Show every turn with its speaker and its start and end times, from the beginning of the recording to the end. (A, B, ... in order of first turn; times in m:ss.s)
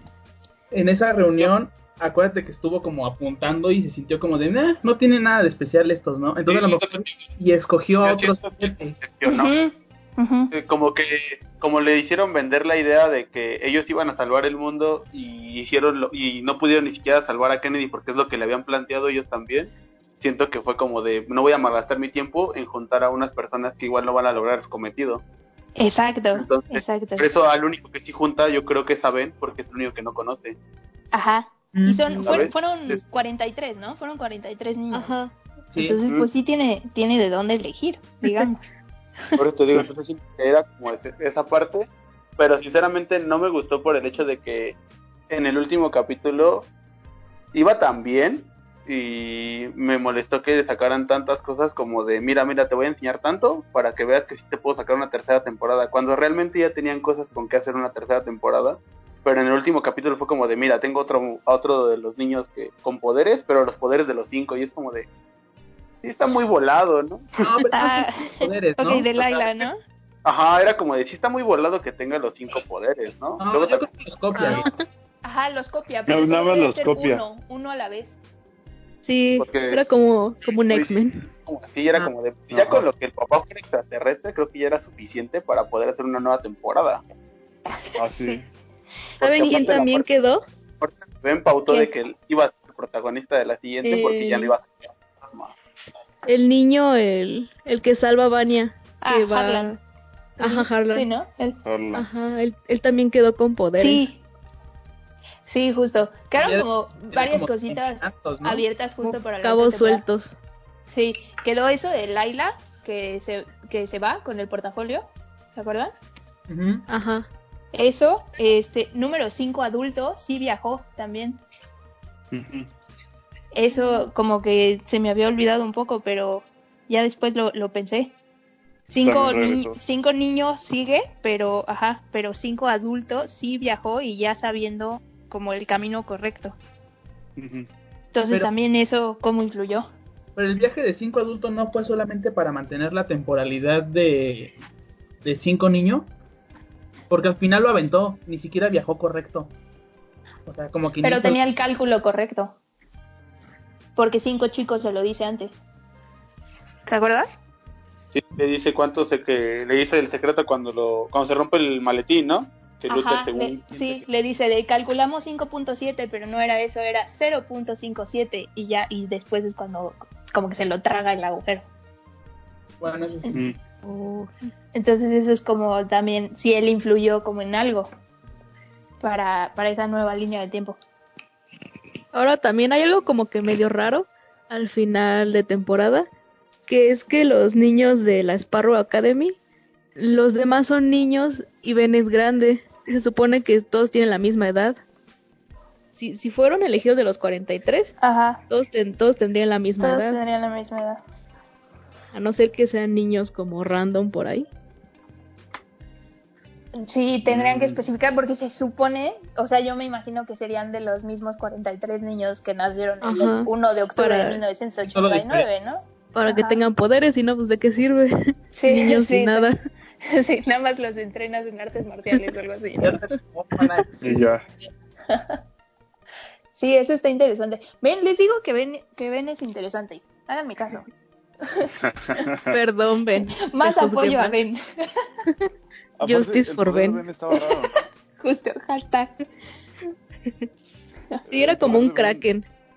0:00.7-0:09.0 A
0:06.5-0:07.3 B
0:08.0-0:09.5 B
0:09.2-0:10.5 C
0:10.5-0:25.2 B
0:25.8-0:27.3 C
0:26.3-0:30.6 B
0:31.1-0:35.2 C
0:31.7-0:32.4 A
0:32.2-0:33.0 B
0:34.9-0:35.3 D
0:35.7-0:36.0 A
0:35.8-0:38.7 C
0:39.4-0:44.8 B
0:45.3-0:46.7 B
0:47.5-1:05.1 B
1:06.0-1:07.3 B
1:07.4-1:09.1 A
1:07.7-1:09.8 C
1:09.2-1:09.7 B
1:10.2-1:13.9 B
1:13.4-1:14.7 A
1:14.4-1:14.8 D
1:15.2-1:18.2 C
1:16.1-1:17.2 E
1:19.0-1:21.3 D
1:19.4-1:19.9 B
1:20.7-1:27.0 B
1:22.5-1:22.9 E
1:28.0-1:28.5 E
1:29.2-1:30.1 B
1:29.2-1:30.4 D
1:29.4-1:29.8 C
1:30.8-1:35.5 B
1:33.8-1:34.5 D
1:36.3-1:39.8 D
1:39.0-1:39.8 C
1:40.4-1:41.1 D
1:40.4-1:41.6 C
1:41.6-1:42.1 E
1:42.0-1:44.1 D
1:43.8-1:44.2 C
1:45.5-1:50.0 C
1:46.4-1:48.7 A
1:49.0-1:50.4 D
1:50.9-1:55.9 C
1:56.5-1:56.9 A
1:56.9-1:57.3 D
1:57.7-2:01.4 C
2:02.3-2:02.7 E
2:03.5-2:08.2 C
2:08.9-2:16.6 C
2:09.0-2:09.8 E
2:17.4-2:17.7 E
2:18.1-2:19.9 C
2:20.4-2:24.5 A
2:25.2-2:26.1 A
2:27.1-2:29.5 A
2:30.5-2:31.4 A
2:31.0-2:32.6 C
2:34.0-2:35.6 C
2:36.9-2:37.4 C
2:38.1-2:44.1 B
2:42.9-2:51.7 C
2:52.8-2:53.4 A
2:53.8-2:54.3 D
2:54.7-2:57.9 C
2:59.0-3:00.8 C
3:02.1-3:06.1 D
3:06.7-3:09.4 D
3:10.0-3:14.8 D
3:15.9-3:18.0 D
3:18.0-3:18.4 C
3:18.5-3:20.2 D
3:19.8-3:21.0 C
3:22.1-3:24.5 D
3:26.8-3:36.6 C
3:27.3-3:27.8 E
3:33.0-3:34.4 D
3:34.9-3:35.5 A
3:36.1-3:39.6 D
3:38.5-3:39.5 C
3:40.0-3:43.0 C
3:42.8-3:44.2 A
3:44.0-3:44.4 E
3:45.1-3:45.4 C
3:46.5-3:50.9 C
3:51.4-3:51.7 C
3:51.8-3:52.5 E
3:52.5-3:54.4 D
3:53.4-3:54.6 C
3:56.0-3:57.8 E
3:56.0-3:57.0 D
3:57.3-3:59.2 C
4:01.2-4:02.3 E
4:01.3-4:02.5 D